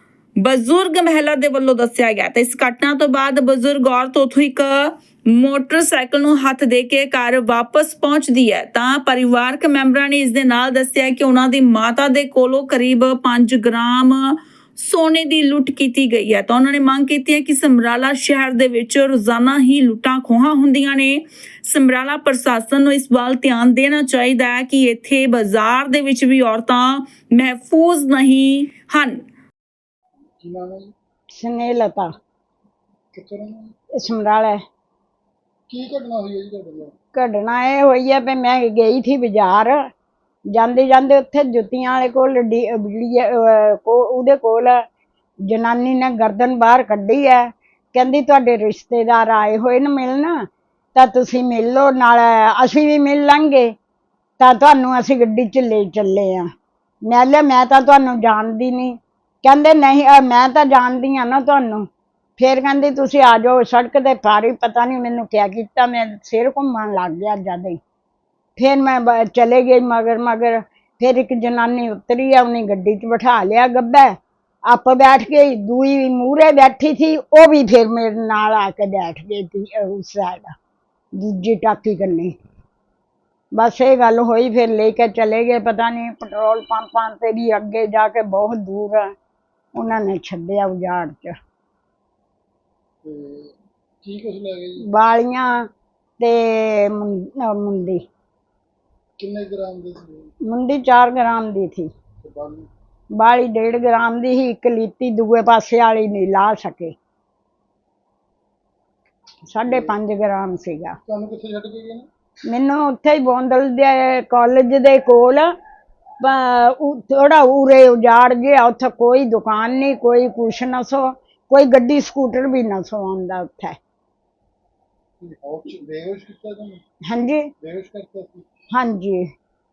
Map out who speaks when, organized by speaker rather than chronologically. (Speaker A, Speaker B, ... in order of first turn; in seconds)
Speaker A: 0.4-29.2
Speaker B: 30.4-30.9, 33.1-33.7, 35.7-36.9, 93.0-94.8, 99.2-100.3, 102.2-102.7, 109.6-109.9, 111.0-112.1, 125.2-126.8, 127.6-128.5
Speaker C: 31.3-32.1, 34.0-34.6, 37.1-39.8, 40.5-44.8, 45.5-50.4, 51.0-53.7, 54.4-56.5, 57.1-61.9, 62.4-67.8, 68.6-74.1, 74.7-80.5, 81.2-82.3, 83.5-89.1, 89.7-91.3, 94.9-95.7, 96.2-98.0, 100.5-101.9, 103.2-106.9, 109.5-111.0, 112.5-115.5, 116.2-123.8, 127.1-127.4, 128.7-129.2